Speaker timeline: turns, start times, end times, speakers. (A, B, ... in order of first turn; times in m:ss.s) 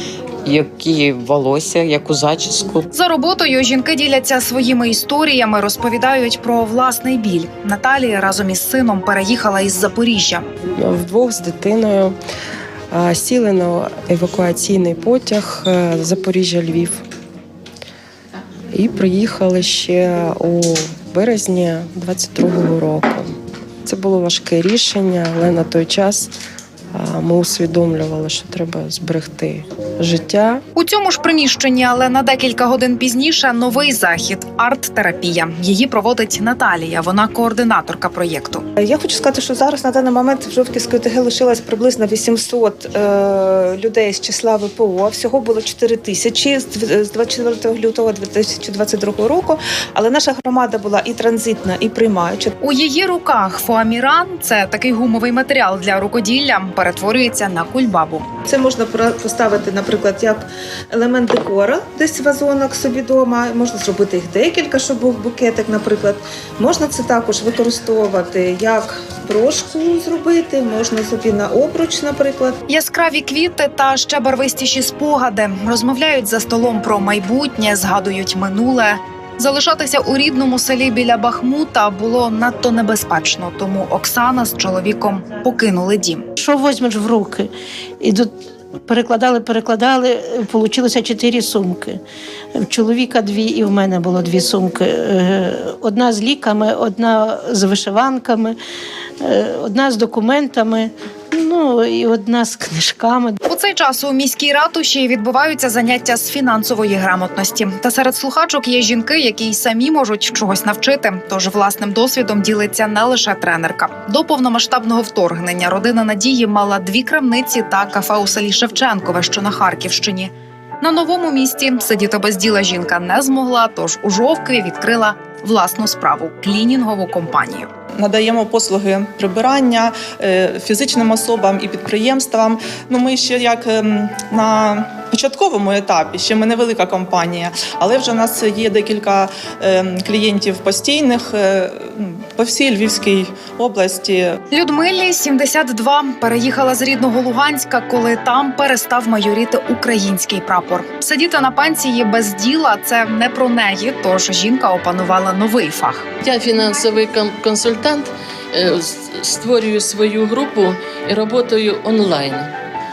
0:00.5-0:02.8 A
0:02.9-0:10.5 B
0:10.8-0:12.1 C
0:12.9-0:17.0 C
0:18.7-0:23.3 C
0:23.8-0:26.3 C
0:27.0-0:30.6 C
0:30.7-0:38.6 B
0:38.8-0:52.5 D
0:52.6-0:58.3 B
0:58.5-1:12.6 D
1:12.7-1:26.2 B
1:26.4-1:27.5 E
1:28.0-1:28.3 E
1:28.9-1:32.0 E
1:32.6-1:38.6 E
1:39.3-1:43.4 E
1:43.4-2:07.7 B
2:08.0-2:24.3 F
2:24.5-2:36.0 B
2:36.2-2:42.5 G